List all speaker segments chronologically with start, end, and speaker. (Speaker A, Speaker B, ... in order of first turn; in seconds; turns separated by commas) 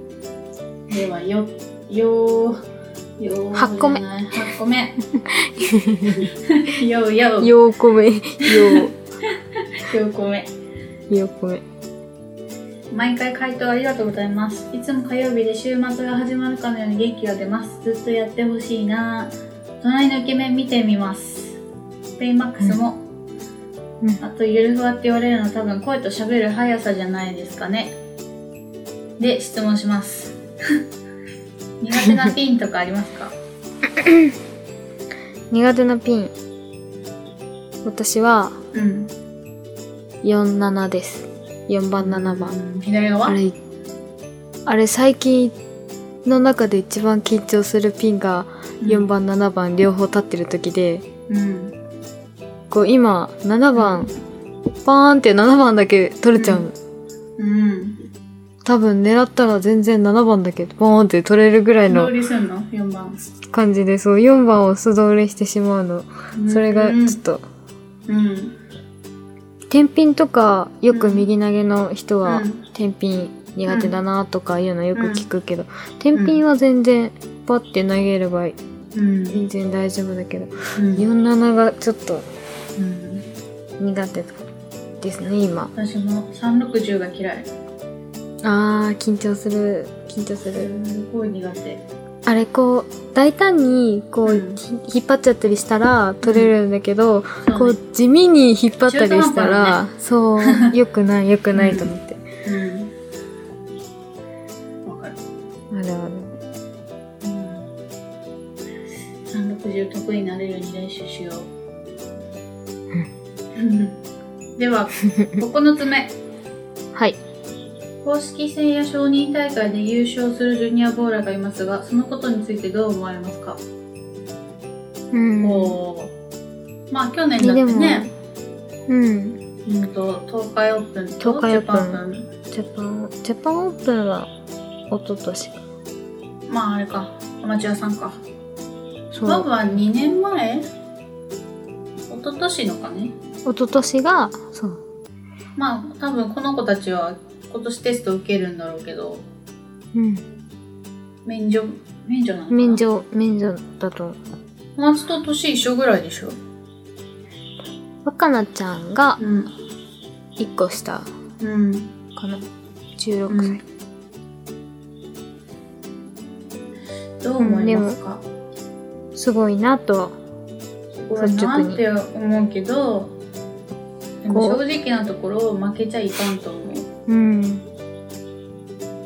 Speaker A: 0.9-2.6, Speaker A: 3.2-5.0, Speaker B: 3.5-4.0, Speaker B: 5.1-6.3, Speaker A: 6.1-7.5, Speaker B: 7.4-8.9, Speaker A: 8.4-10.5, Speaker B: 11.1-11.6, Speaker A: 12.9-21.6, Speaker A: 22.2-23.0, Speaker A: 24.2-27.9, Speaker A: 29.2-30.4, Speaker A: 31.8-33.3, Speaker B: 33.9-34.4, Speaker B: 35.5-36.3, Speaker B: 37.8-38.6, Speaker A: 38.7-39.1, Speaker B: 40.2-42.6, Speaker A: 42.0-43.4, Speaker B: 43.3-43.6, Speaker B: 44.7-45.5, Speaker B: 46.2-51.0, Speaker A: 48.8-49.1, Speaker A: 51.3-51.8, Speaker B: 52.7-54.1, Speaker A: 53.8-54.1, Speaker B: 54.8-56.8, Speaker A: 56.4-56.6, Speaker A: 57.4-58.0, Speaker B: 58.6-62.1, Speaker A: 61.9-63.2, Speaker B: 63.4-67.4, Speaker A: 66.3-67.2, Speaker A: 68.1-68.6, Speaker B: 69.7-78.6, Speaker A: 70.9-71.3, Speaker A: 72.2-72.6, Speaker A: 73.7-74.0, Speaker A: 75.0-75.3, Speaker A: 76.1-76.4, Speaker A: 79.0-79.4, Speaker B: 79.3-82.2, Speaker A: 80.8-81.0, Speaker A: 82.8-83.2, Speaker B: 83.8-84.4, Speaker B: 85.0-85.7, Speaker A: 85.8-87.5, Speaker B: 88.4-90.7, Speaker A: 90.5-91.8, Speaker B: 92.3-102.2, Speaker A: 94.2-94.6, Speaker A: 96.2-96.5, Speaker A: 97.4-97.8, Speaker A: 98.9-99.8, Speaker A: 100.4-100.7, Speaker A: 101.5-101.9, Speaker A: 102.5-102.9, Speaker A: 104.9-105.2, Speaker B: 105.7-106.3, Speaker A: 107.2-107.7, Speaker A: 109.3-111.5, Speaker A: 113.5-114.0, Speaker A: 114.6-116.1, Speaker B: 115.1-115.4, Speaker B: 116.9-117.2, Speaker A: 118.0-123.6, Speaker B: 125.1-125.8, Speaker A: 125.4-126.1, Speaker A: 126.9-128.1, Speaker B: 127.4-128.1, Speaker B: 128.9-129.4, Speaker A: 129.7-132.3, Speaker B: 131.2-134.3, Speaker B: 134.9-135.6, Speaker A: 136.5-138.2, Speaker B: 139.1-139.5, Speaker A: 139.3-140.7, Speaker A: 142.1-143.1, Speaker B: 143.4-144.8, Speaker A: 145.6-149.3, Speaker B: 149.9-150.2, Speaker A: 151.3-152.8, Speaker B: 152.5-154.2, Speaker A: 154.8-156.4, Speaker B: 158.0-159.2, Speaker A: 159.2-159.5, Speaker B: 160.4-161.1, Speaker A: 161.4-161.9, Speaker B: 162.2-163.6, Speaker A: 163.3-163.6, Speaker A: 167.2-168.2, Speaker B: 167.4-168.0, Speaker B: 169.2-170.2, Speaker A: 171.0-173.1, Speaker B: 171.2-171.8, Speaker A: 174.2-176.9, Speaker B: 174.3-174.6, Speaker B: 177.1-177.6